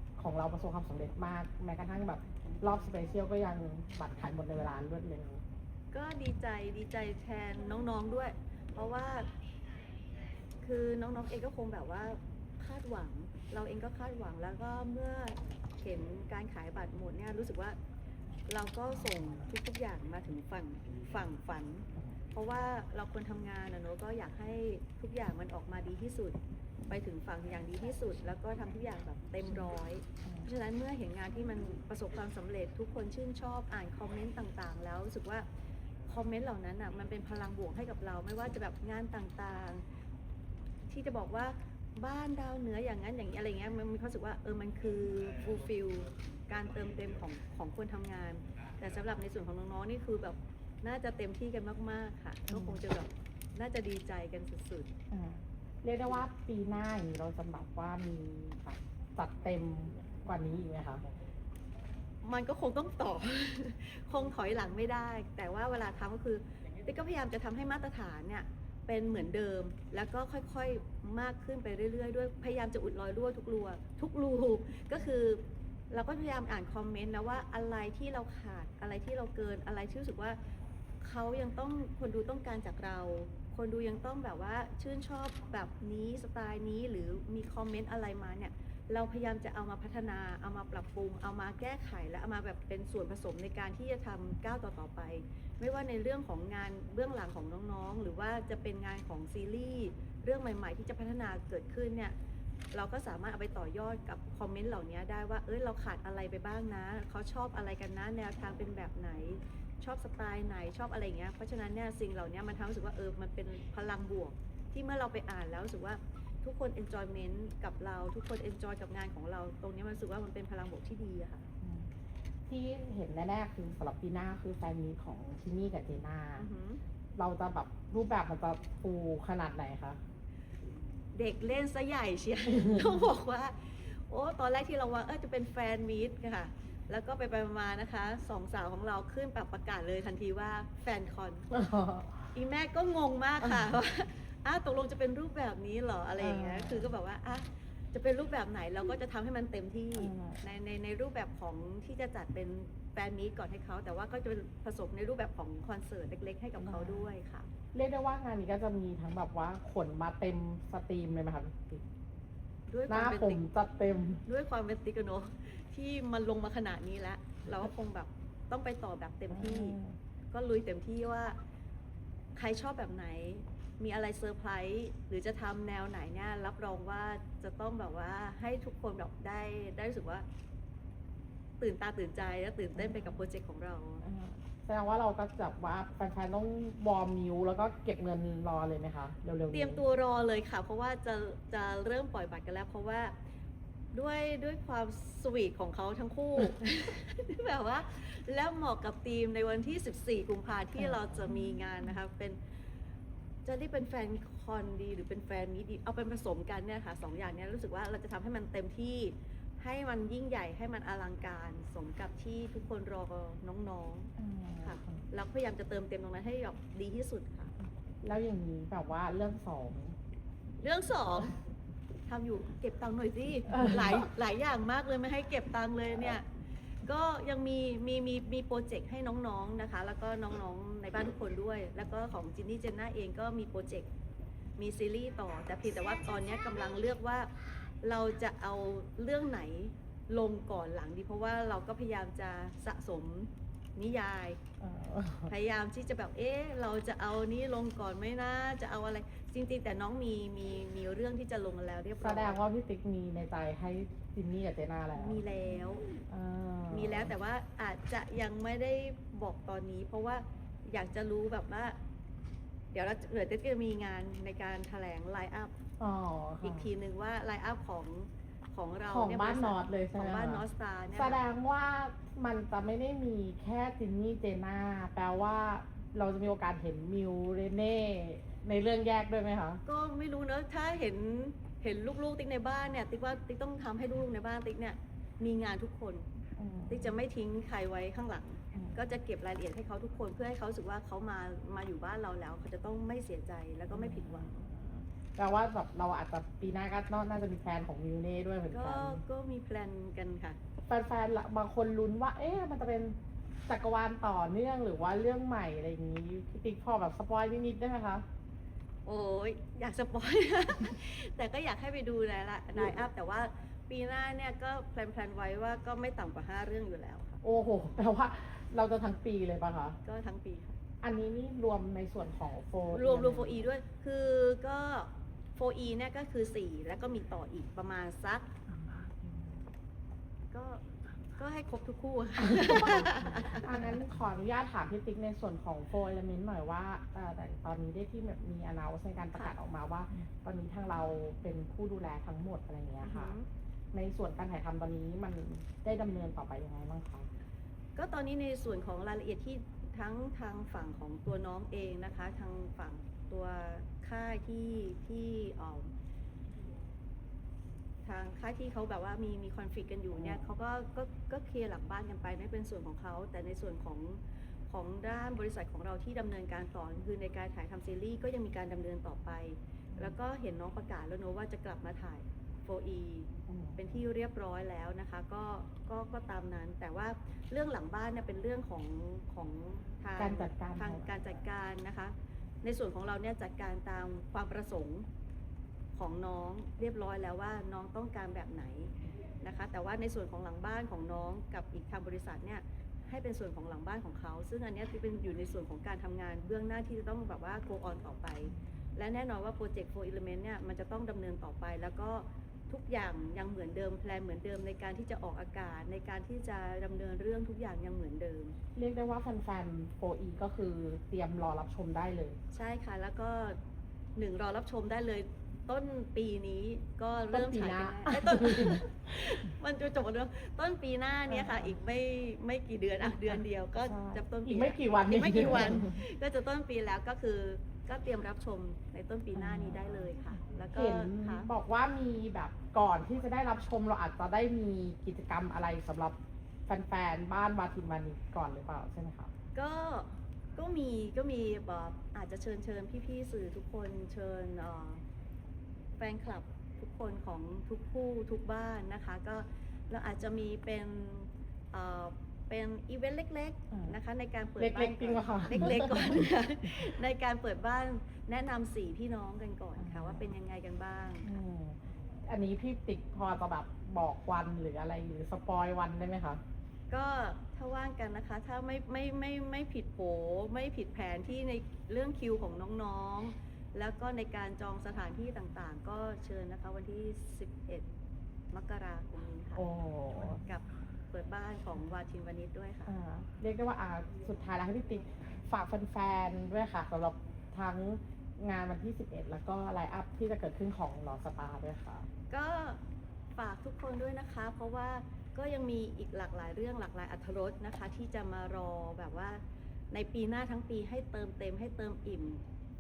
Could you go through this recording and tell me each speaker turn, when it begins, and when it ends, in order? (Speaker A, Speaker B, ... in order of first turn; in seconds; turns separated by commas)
Speaker A: 0.2-5.4, Speaker B: 5.9-9.3, Speaker B: 10.6-17.8, Speaker B: 18.5-26.4, Speaker B: 26.9-35.5, Speaker B: 36.0-39.8, Speaker B: 40.9-54.9, Speaker A: 52.5-52.8, Speaker A: 55.1-61.1, Speaker B: 62.2-80.4, Speaker B: 81.0-102.1, Speaker B: 102.7-121.5, Speaker A: 121.6-121.9, Speaker A: 122.5-126.5, Speaker B: 126.4-126.8, Speaker A: 127.2-130.0, Speaker B: 131.1-141.5, Speaker A: 132.5-132.9, Speaker A: 141.5-142.3, Speaker B: 142.3-157.5, Speaker A: 146.2-146.9, Speaker A: 149.9-150.4, Speaker A: 156.6-157.1, Speaker A: 157.7-161.8, Speaker B: 162.7-163.4, Speaker A: 162.9-164.2, Speaker B: 164.2-169.8, Speaker A: 169.3-169.9, Speaker B: 170.3-171.4, Speaker B: 172.3-180.2, Speaker B: 181.6-184.0, Speaker A: 182.7-183.2, Speaker A: 184.0-189.8, Speaker B: 189.5-193.1, Speaker B: 193.9-202.4, Speaker A: 200.8-201.6, Speaker B: 203.4-214.1, Speaker A: 214.2-215.0, Speaker B: 214.6-217.5, Speaker A: 218.0-219.9, Speaker B: 220.6-221.3, Speaker B: 222.1-226.2, Speaker A: 223.5-224.1, Speaker B: 226.8-233.9, Speaker B: 234.6-237.3, Speaker B: 237.8-244.4, Speaker A: 244.6-245.3, Speaker B: 245.3-252.4, Speaker A: 252.0-255.2, Speaker B: 254.9-255.9, Speaker A: 256.1-257.1, Speaker B: 256.7-261.8, Speaker B: 262.7-265.5, Speaker A: 265.8-266.7, Speaker B: 266.4-271.2, Speaker A: 268.8-279.6, Speaker B: 279.6-286.0, Speaker A: 286.4-287.0, Speaker B: 286.7-294.3, Speaker A: 288.5-288.8, Speaker A: 293.7-299.0, Speaker B: 298.5-300.4, Speaker A: 300.7-308.0, Speaker B: 308.9-317.2, Speaker A: 317.2-319.8, Speaker B: 319.8-320.5, Speaker A: 320.8-323.5, Speaker B: 322.7-328.3, Speaker A: 328.5-329.4, Speaker B: 330.3-330.6, Speaker B: 331.1-333.4, Speaker A: 332.3-343.1, Speaker B: 342.8-343.3, Speaker A: 343.7-347.1, Speaker B: 347.8-355.7, Speaker B: 357.8-384.9, Speaker A: 359.9-360.3, Speaker A: 373.3-373.8, Speaker A: 380.0-380.9, Speaker B: 385.7-408.3, Speaker A: 408.6-412.2, Speaker B: 412.3-413.4, Speaker B: 413.9-431.3, Speaker A: 417.1-418.7, Speaker A: 421.1-421.6, Speaker A: 422.8-425.8, Speaker A: 429.1-435.9, Speaker A: 436.5-439.1, Speaker B: 439.3-444.8, Speaker B: 445.8-461.1, Speaker A: 453.5-453.8, Speaker A: 454.4-456.1, Speaker A: 459.6-460.0, Speaker A: 461.0-466.2, Speaker B: 466.7-477.6, Speaker B: 478.3-482.7, Speaker A: 479.3-480.2, Speaker A: 482.6-491.9, Speaker B: 492.1-492.6, Speaker B: 493.1-502.2